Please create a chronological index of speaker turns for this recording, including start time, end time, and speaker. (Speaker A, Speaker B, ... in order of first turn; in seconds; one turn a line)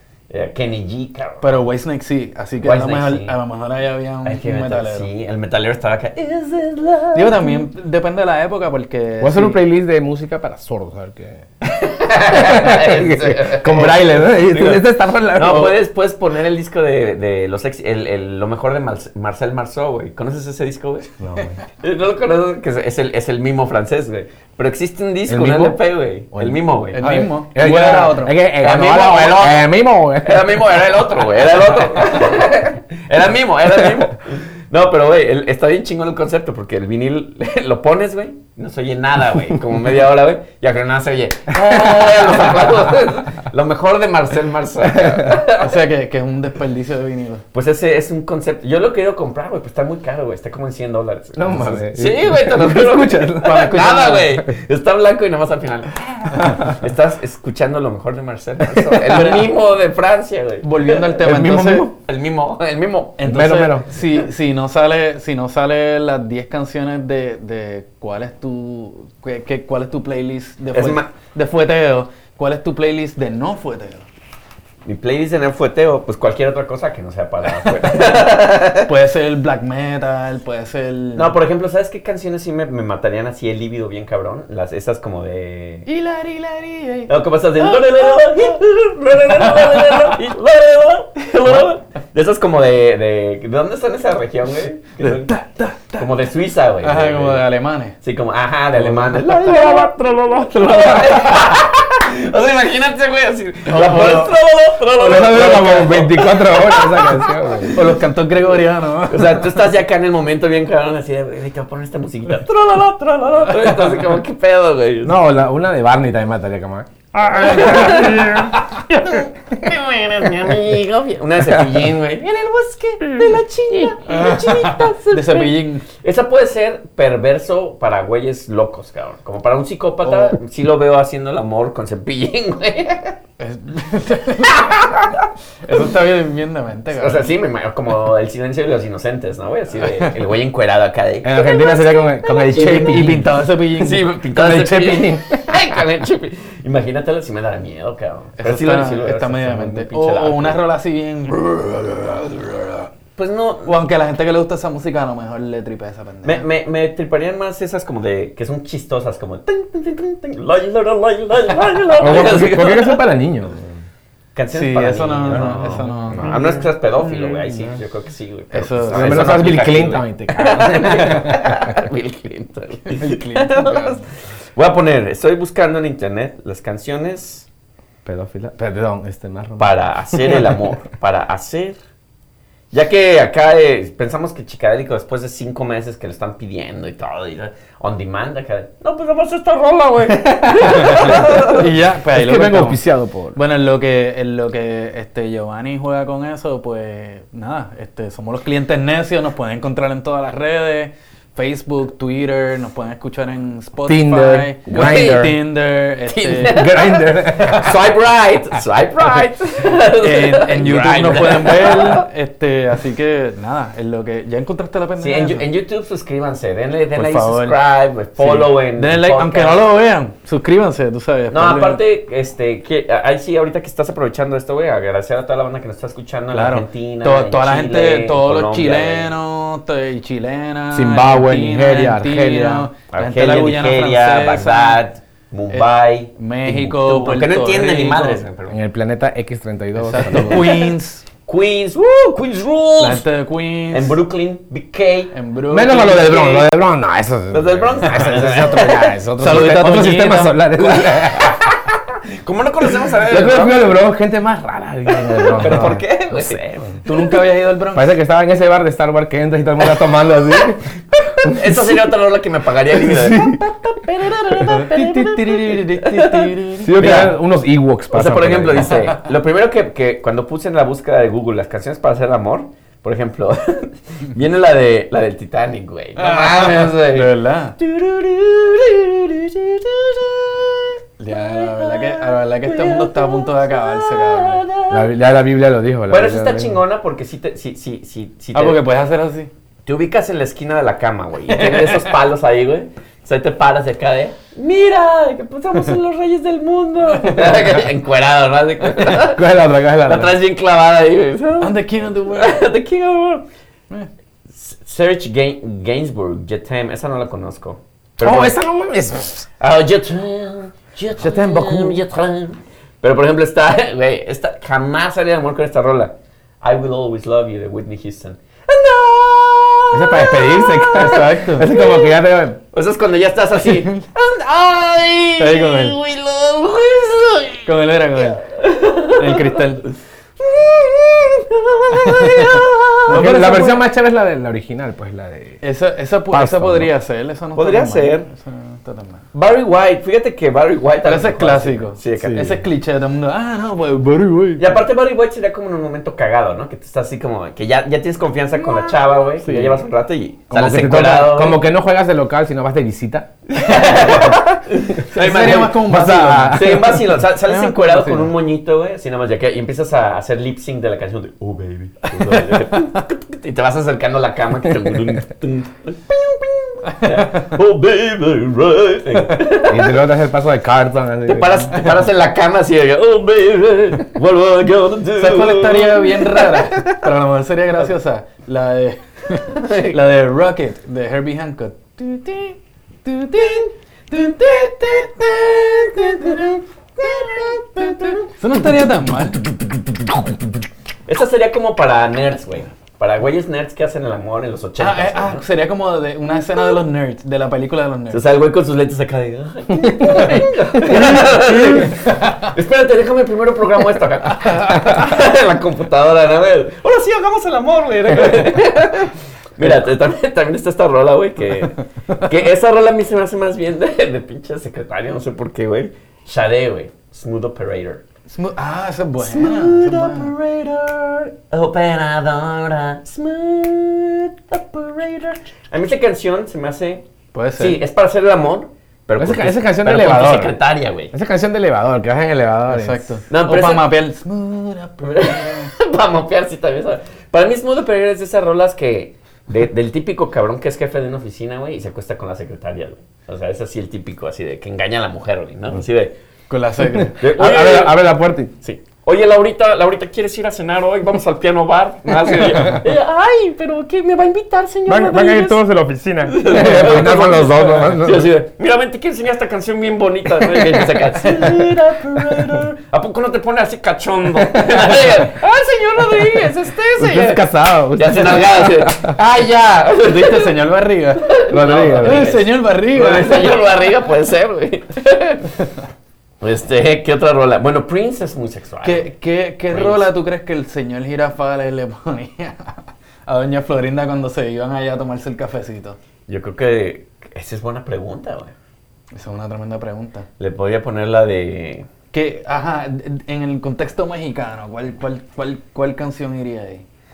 Speaker A: 0.3-1.6
Speaker B: 1.4-5.1
Speaker A: 2.6-3.4
Speaker A: 4.2-7.6
Speaker B: 7.1-9.6
Speaker C: 9.2-11.4
Speaker A: 11.6-21.1
Speaker C: 12.2-15.8
Speaker C: 21.2-21.6
Speaker A: 21.7-28.0
Speaker C: 25.3-25.8
Speaker C: 26.3-30.8
Speaker B: 26.9-28.4
Speaker A: 28.6-45.8
Speaker C: 41.6-42.7
Speaker C: 44.8-45.4
Speaker B: 45.6-47.4
Speaker A: 47.5-61.3
Speaker C: 51.4-54.5
Speaker B: 53.4-54.3
Speaker C: 56.3-56.8
Speaker C: 58.7-59.3
Speaker B: 59.1-59.5
Speaker B: 60.6-61.9
Speaker C: 61.2-61.9
Speaker A: 62.0-63.2
Speaker B: 63.2-74.1
Speaker C: 63.2-63.8
Speaker A: 70.7-71.1
Speaker A: 74.8-78.9
Speaker B: 78.8-81.3
Speaker A: 81.2-85.9
Speaker B: 85.8-88.6
Speaker A: 87.1-95.3
Speaker B: 89.4-90.1
Speaker B: 95.0-96.1
Speaker A: 96.0-97.5
Speaker B: 96.8-98.0
Speaker A: 98.0-99.9
Speaker B: 98.8-99.2
Speaker C: 99.2-101.6
Speaker A: 100.5-107.9
Speaker B: 103.7-104.3
Speaker C: 104.9-107.8
Speaker B: 107.7-109.5
Speaker A: 109.1-115.2
Speaker C: 115.0-118.5
Speaker A: 117.2-133.2
Speaker B: 124.0-125.8
Speaker B: 130.0-130.4
Speaker B: 133.4-134.9
Speaker A: 134.6-135.8
Speaker B: 135.6-137.3
Speaker A: 136.9-143.0
Speaker C: 141.2-143.4
Speaker B: 142.5-144.1
Speaker A: 143.7-150.6
Speaker C: 144.3-145.5
Speaker B: 148.4-152.9
Speaker A: 153.2-153.8
Speaker B: 153.6-156.4
Speaker A: 156.2-163.0
Speaker C: 162.0-163.8
Speaker A: 164.3-174.0
Speaker B: 164.5-166.7
Speaker C: 165.4-166.4
Speaker B: 168.5-169.4
Speaker C: 168.9-171.7
Speaker B: 172.9-174.1
Speaker A: 174.6-177.4
Speaker C: 178.0-180.6
Speaker A: 179.6-181.8
Speaker A: 182.7-191.7
Speaker C: 190.1-191.2
Speaker B: 190.8-192.8
Speaker C: 192.1-193.4
Speaker B: 193.3-206.7
Speaker C: 203.8-205.4
Speaker A: 204.7-205.3
Speaker A: 206.1-212.0
Speaker C: 206.5-207.7
Speaker B: 210.0-215.4
Speaker A: 215.0-219.6
Speaker B: 216.9-217.6
Speaker B: 218.2-221.8
Speaker A: 221.3-229.1
Speaker B: 226.3-234.8
Speaker C: 230.7-232.7
Speaker A: 232.9-238.6
Speaker B: 235.5-238.2
Speaker C: 238.5-240.6
Speaker B: 239.8-241.0
Speaker A: 240.0-240.7
Speaker A: 241.2-243.0
Speaker B: 242.8-244.0
Speaker A: 243.7-245.1
Speaker B: 245.1-246.4
Speaker C: 245.5-251.6
Speaker A: 247.3-249.4
Speaker B: 249.2-250.5
Speaker A: 250.6-251.6
Speaker A: 252.2-253.7
Speaker C: 253.0-256.8
Speaker A: 255.0-256.8
Speaker B: 255.4-255.8
Speaker B: 256.8-257.9
Speaker C: 257.7-260.6
Speaker A: 259.9-267.1
Speaker C: 261.2-261.7
Speaker C: 262.7-263.4
Speaker B: 264.4-267.1
Speaker C: 266.6-268.8
Speaker A: 267.9-284.9
Speaker B: 276.0-277.6
Speaker B: 281.0-284.4
Speaker C: 284.7-286.6
Speaker A: 285.9-288.6
Speaker B: 288.3-289.3
Speaker A: 289.6-303.2
Speaker B: 291.3-291.9
Speaker B: 297.0-297.6
Speaker C: 298.8-300.2
Speaker B: 301.4-302.4
Speaker A: 304.3-308.4
Speaker C: 308.0-309.3
Speaker A: 309.4-327.5
Speaker C: 311.0-311.8
Speaker C: 319.7-322.4
Speaker B: 320.7-321.5
Speaker B: 323.4-323.8
Speaker B: 325.2-325.8
Speaker B: 327.4-328.2
Speaker A: 328.0-329.4
Speaker B: 328.9-329.6
Speaker A: 330.2-333.1
Speaker B: 331.7-333.6
Speaker C: 332.9-335.4
Speaker B: 335.4-339.1
Speaker C: 336.1-336.7
Speaker A: 337.4-338.1
Speaker A: 339.1-342.4
Speaker B: 340.8-344.5
Speaker C: 342.0-342.3
Speaker A: 344.4-351.4
Speaker B: 348.5-349.6
Speaker C: 350.3-353.1
Speaker A: 353.3-355.7
Speaker C: 353.7-356.8
Speaker B: 354.9-358.1
Speaker A: 356.3-369.8
Speaker B: 366.7-367.3
Speaker C: 369.5-371.7
Speaker A: 371.1-376.9
Speaker B: 375.0-389.2
Speaker A: 379.4-379.8
Speaker A: 383.1-388.1
Speaker A: 390.9-395.2
Speaker B: 394.6-398.0
Speaker A: 397.9-417.8
Speaker B: 400.6-402.3
Speaker B: 418.1-420.1
Speaker A: 419.0-426.8
Speaker B: 427.1-427.6
Speaker A: 427.4-430.9
Speaker C: 429.0-430.4
Speaker C: 430.9-432.9
Speaker B: 432.5-435.5
Speaker A: 433.1-433.7
Speaker A: 434.8-445.9
Speaker B: 446.3-447.0
Speaker C: 446.7-448.3
Speaker A: 447.0-447.8
Speaker A: 448.4-455.4
Speaker C: 454.6-458.1
Speaker A: 456.0-470.4
Speaker C: 460.3-461.3
Speaker C: 464.2-464.7
Speaker C: 466.8-469.0
Speaker B: 469.8-471.1
Speaker A: 471.0-475.3
Speaker C: 471.3-472.1
Speaker B: 471.8-473.5
Speaker A: 476.2-478.9
Speaker B: 478.6-485.8
Speaker A: 479.5-479.9
Speaker A: 486.1-488.3
Speaker B: 488.9-490.1
Speaker A: 490.2-491.7
Speaker B: 491.9-496.6